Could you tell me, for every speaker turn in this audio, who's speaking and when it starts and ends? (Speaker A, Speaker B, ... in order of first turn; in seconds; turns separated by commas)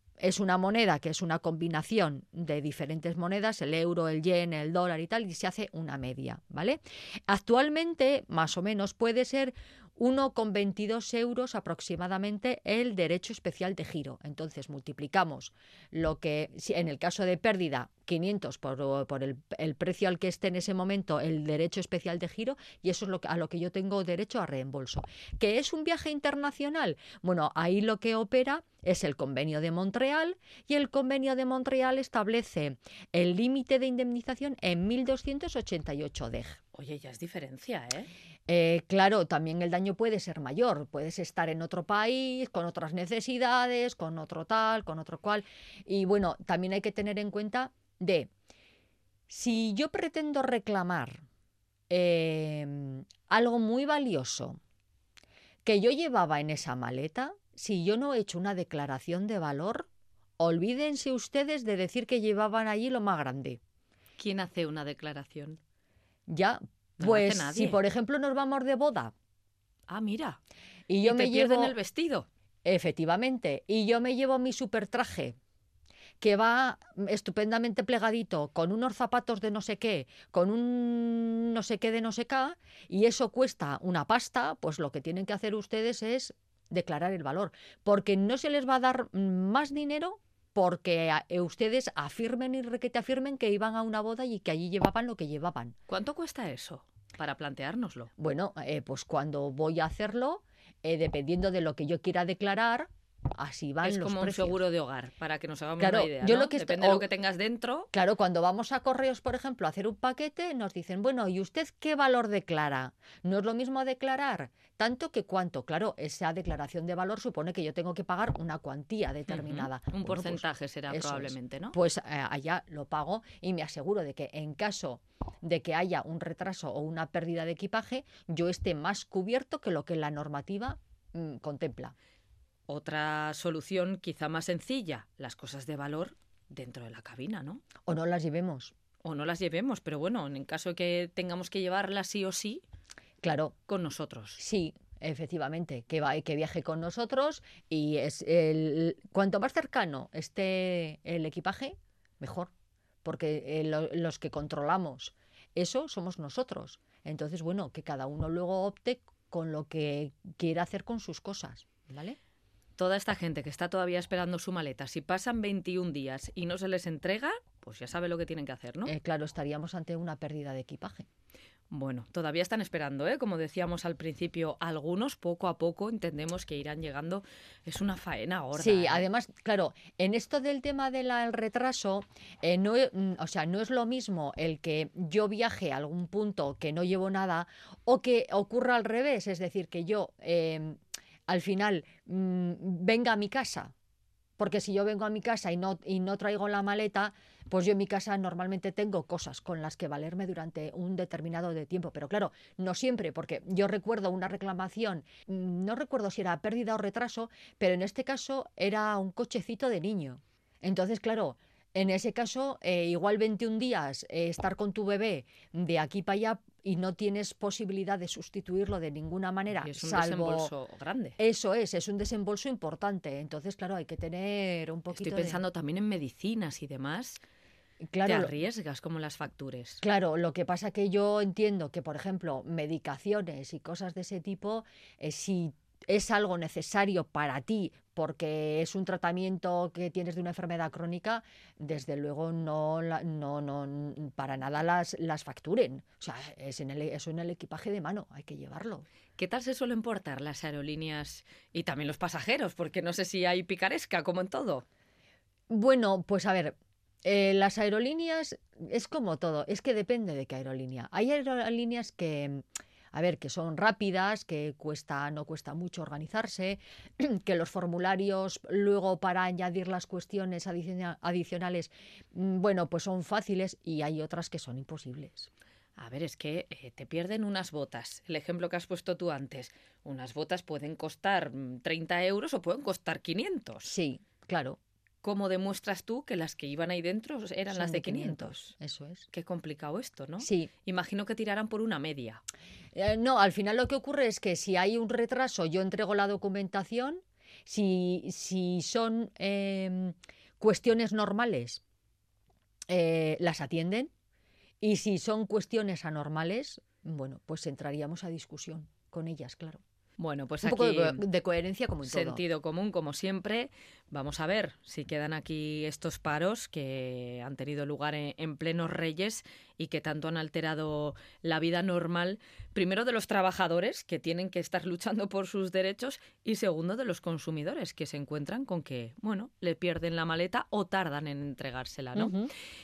Speaker A: 0.2-36.6, Speaker B: 36.7-38.1, Speaker A: 38.5-48.3, Speaker A: 49.3-51.2, Speaker A: 51.9-54.6, Speaker A: 55.6-63.6, Speaker B: 64.2-65.6, Speaker A: 66.3-69.1, Speaker B: 67.0-67.8, Speaker B: 69.9-70.4, Speaker A: 70.9-71.8, Speaker B: 71.0-72.3, Speaker A: 72.7-75.4, Speaker A: 76.2-95.8, Speaker B: 95.9-98.1, Speaker A: 98.2-104.6, Speaker B: 103.8-107.9, Speaker A: 105.8-107.1, Speaker A: 107.9-131.9, Speaker B: 119.3-121.8, Speaker B: 132.7-137.6, Speaker A: 137.9-138.7, Speaker B: 139.0-142.6, Speaker A: 143.2-143.6, Speaker B: 143.7-144.4, Speaker A: 144.4-152.5, Speaker A: 153.0-162.2, Speaker B: 162.8-168.9, Speaker A: 168.9-171.1, Speaker B: 171.7-179.1, Speaker A: 178.6-193.7, Speaker A: 194.4-220.5, Speaker B: 219.5-221.2, Speaker A: 221.2-225.4, Speaker B: 224.9-227.2, Speaker A: 227.8-228.3, Speaker B: 228.1-229.8, Speaker A: 229.8-248.9, Speaker B: 249.2-254.7, Speaker A: 255.5-275.3, Speaker B: 275.8-283.7, Speaker A: 283.6-284.6, Speaker B: 285.0-288.5, Speaker A: 287.5-289.1, Speaker B: 289.1-292.2, Speaker A: 290.2-290.5, Speaker A: 292.7-301.6, Speaker A: 302.7-303.9, Speaker A: 304.6-309.6, Speaker B: 310.0-311.1, Speaker A: 310.4-312.2, Speaker B: 311.8-332.1, Speaker A: 331.9-332.3